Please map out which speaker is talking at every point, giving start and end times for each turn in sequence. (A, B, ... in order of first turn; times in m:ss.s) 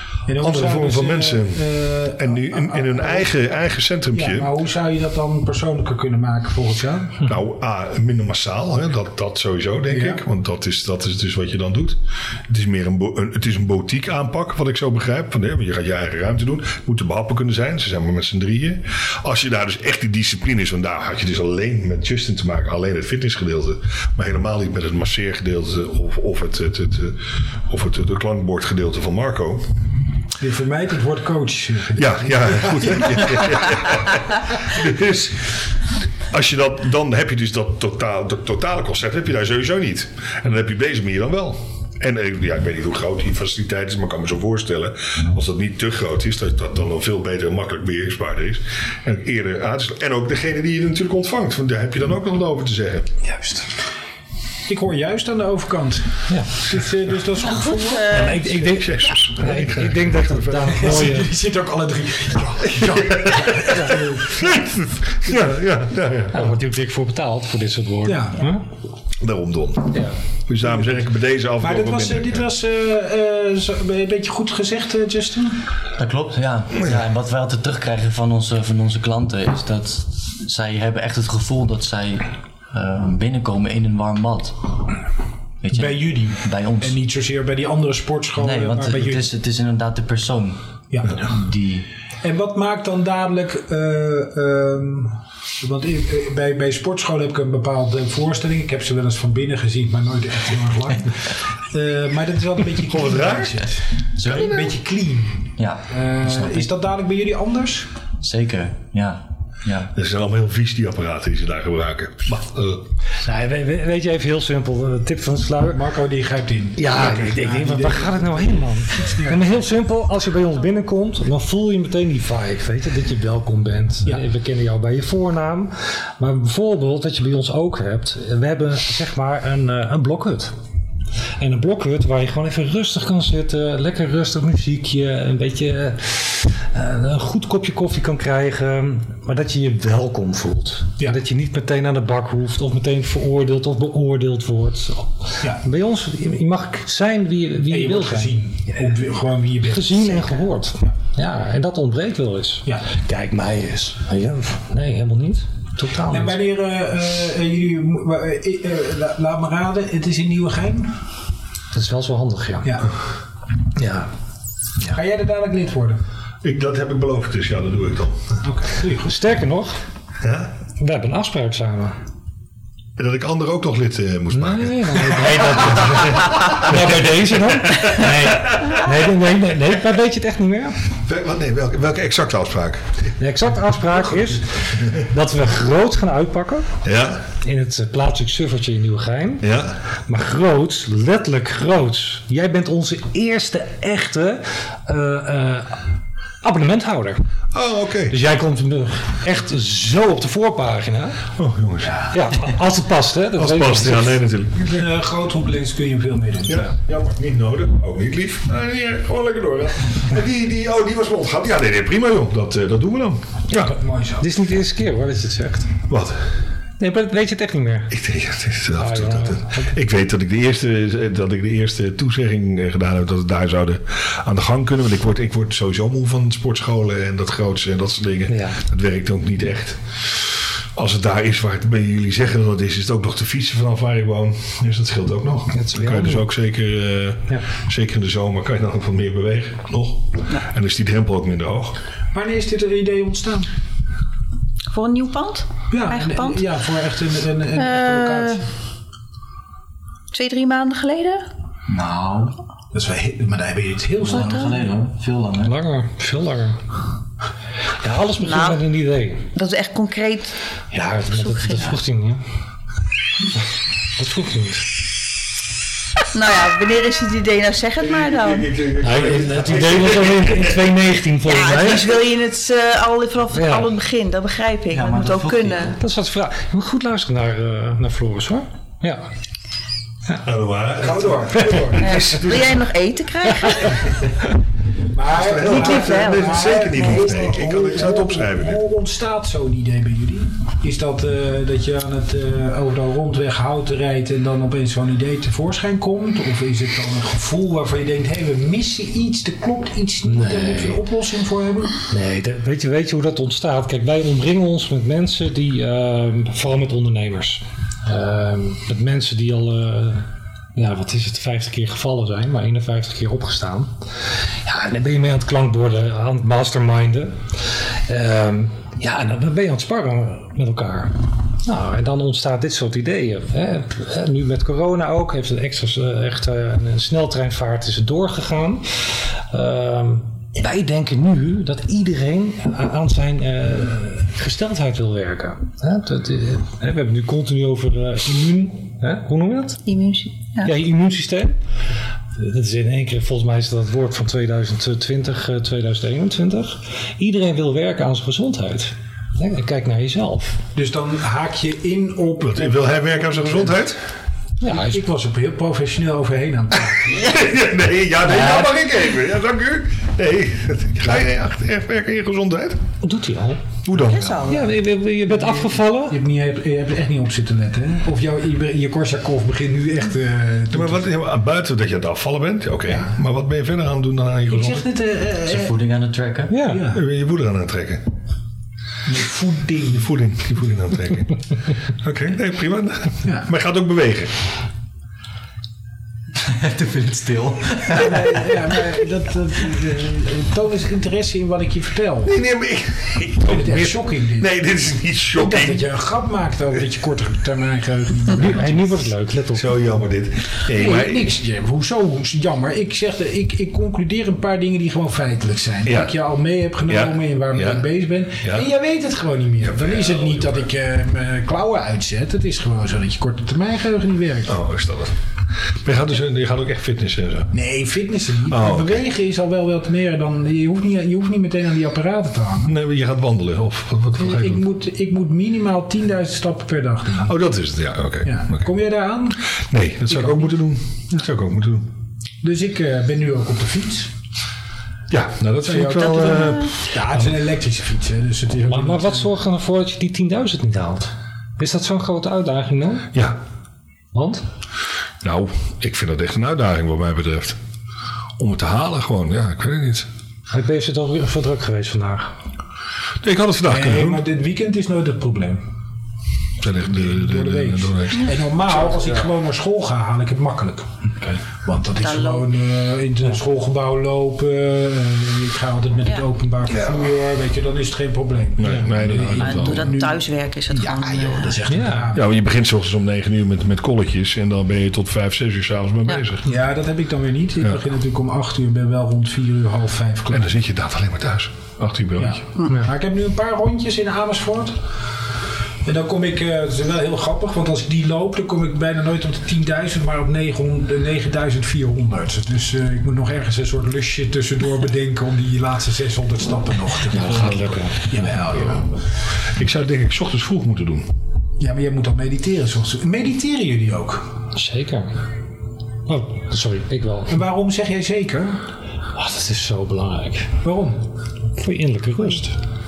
0:00.3-0:03.3 A
0:00.4-0:04.5 B
0:04.1-0:07.2 A
0:07.2-0:29.7 B
0:09.9-0:10.2 A
0:30.4-0:33.5 A
0:32.0-0:35.6 B
0:36.3-0:53.1 B
0:53.3-0:53.7 C
0:54.7-0:58.4 A
0:56.3-0:56.7 C
0:57.5-0:58.4 D
0:58.0-1:01.3 C
0:58.6-1:00.8 B
1:00.7-1:04.6 A
1:02.8-1:06.5 B
1:06.3-1:08.6 C
1:08.0-1:08.4 A
1:09.2-1:12.5 B
1:09.9-1:10.2 C
1:11.6-1:15.6 A
1:16.0-1:24.7 E
1:25.6-1:27.0 E
1:25.7-1:29.3 A
1:28.4-1:30.6 E
1:30.9-1:31.3 A
1:31.1-1:31.8 E
1:32.2-1:47.9 A
1:42.8-1:43.6 B
1:44.2-1:44.6 E
1:45.6-1:46.7 E
1:48.2-1:49.9 E
1:49.9-1:52.8 B
1:53.2-1:55.8 C
1:55.7-1:59.4 A
1:56.8-2:10.5 C
2:11.4-2:28.4 C
2:27.7-2:30.4 A
2:29.6-2:36.4 C
2:36.1-2:40.9 A
2:41.7-2:42.8 C
2:42.6-2:42.9 A
2:43.8-2:44.1 C
2:44.9-2:46.0 A
2:46.4-2:48.4 B
2:48.4-2:49.2 A
2:49.0-2:49.8 C
2:50.2-2:50.5 B
2:50.8-2:52.0 C
2:53.0-2:56.9 B
2:54.3-3:00.8 C
2:57.8-2:58.8 B
3:01.0-3:03.1 B
3:03.2-3:06.7 C
3:06.8-3:07.2 B
3:07.4-3:09.5 C
3:09.4-3:09.8 B
3:10.1-3:15.8 C
3:16.4-3:17.2 C
3:17.5-3:18.2 B
3:18.1-3:21.2 C
3:21.4-3:22.0 B
3:22.1-3:24.2 C
3:23.4-3:24.9 B
3:24.7-3:26.7 A
3:26.5-3:33.7 B
3:33.6-3:34.3 A
3:34.2-3:35.7 C
3:35.9-3:36.2 B
3:36.8-3:37.9 C
3:37.9-4:01.8 B
3:38.8-3:39.7 C
3:48.3-3:48.6 C
3:55.5-3:56.2 C
4:02.1-4:03.5 A
4:04.7-4:06.4 D
4:05.7-4:08.4 A
4:07.6-4:08.4 D
4:10.1-4:11.2 D
4:11.7-4:12.4 E
4:12.7-4:14.5 A
4:14.0-4:15.5 E
4:14.1-4:14.5 D
4:15.4-4:16.6 C
4:17.8-4:19.3 C
4:18.2-4:18.6 D
4:19.3-4:20.4 D
4:20.7-4:22.2 C
4:21.1-4:21.8 D
4:24.0-4:24.7 C
4:26.1-4:28.6 D
4:27.8-4:30.6 B
4:28.8-4:32.0 C
4:31.2-4:35.7 D
4:33.3-4:33.7 C
4:34.7-4:35.8 E
4:35.8-4:39.0 C
4:40.2-4:42.6 B
4:40.8-4:42.1 A
4:41.7-4:44.0 D
4:44.9-5:01.7 A
4:45.1-4:48.6 B
4:45.4-4:47.1 D
5:00.0-5:00.8 C
5:01.9-5:13.7 C
5:14.4-5:39.6 C
5:39.6-5:40.5 D
5:40.4-5:41.4 C
5:42.2-5:50.4 C
5:50.5-5:53.5 A
5:52.2-5:53.8 B
5:54.4-5:54.8 C
5:54.5-5:57.1 A
5:56.9-6:02.6 B
5:58.1-5:58.5 C
6:02.8-6:03.6 C
6:03.6-6:04.2 B
6:03.7-6:04.5 D
6:04.2-6:06.0 C
6:05.1-6:10.8 A
6:10.5-6:14.7 B
6:12.7-6:12.9 A
6:14.3-6:15.6 A
6:15.2-6:16.3 E
6:16.3-6:16.7 C
6:16.4-6:16.8 A
6:16.7-6:17.9 B
6:18.8-6:19.9 A
6:19.7-6:21.2 B
6:21.8-6:24.1 B
6:23.0-6:23.3 A
6:26.2-6:28.3 E
6:27.7-6:32.1 A
6:32.0-6:35.6 B
6:33.2-6:34.3 A
6:35.1-6:38.7 A
6:38.1-6:39.6 C
6:39.3-6:41.1 B
6:40.5-6:54.4 A
6:45.6-6:45.9 B
6:46.7-6:47.6 B
6:49.5-6:50.4 B
6:54.3-6:54.9 B
6:55.6-6:57.3 B
6:57.3-7:02.5 A
6:58.3-6:58.8 B
7:02.4-7:04.4 B
7:03.9-7:07.1 A
7:07.0-7:08.5 B
7:08.0-7:09.2 A
7:09.2-7:11.7 B
7:09.9-7:10.3 A
7:12.2-7:13.9 A
7:14.9-7:16.7 B
7:15.4-7:19.1 A
7:16.2-7:16.4 D
7:18.4-7:22.9 C
7:22.9-7:23.2 B
7:23.9-7:24.2 C
7:25.0-7:27.4 B
7:28.2-7:29.9 B
7:30.3-7:32.1 C
7:33.0-7:34.0 B
7:33.5-7:35.4 A
7:36.4-7:38.9 B
7:36.6-7:52.1 A
7:41.8-7:42.3 D
7:48.4-7:49.7 B
7:49.2-7:51.4 D
7:51.5-7:51.9 C
7:51.9-7:56.2 B
7:56.2-8:00.3 A
8:00.1-8:02.2 B
8:02.0-8:04.6 A
8:05.6-8:18.7 A
8:16.9-8:18.0 C
8:19.2-8:20.9 B
8:21.4-8:24.1 A
8:24.3-8:25.0 C
8:25.8-8:27.2 C
8:27.1-8:28.4 A
8:28.9-8:30.4 C
8:30.4-8:30.8 A
8:31.4-8:32.4 C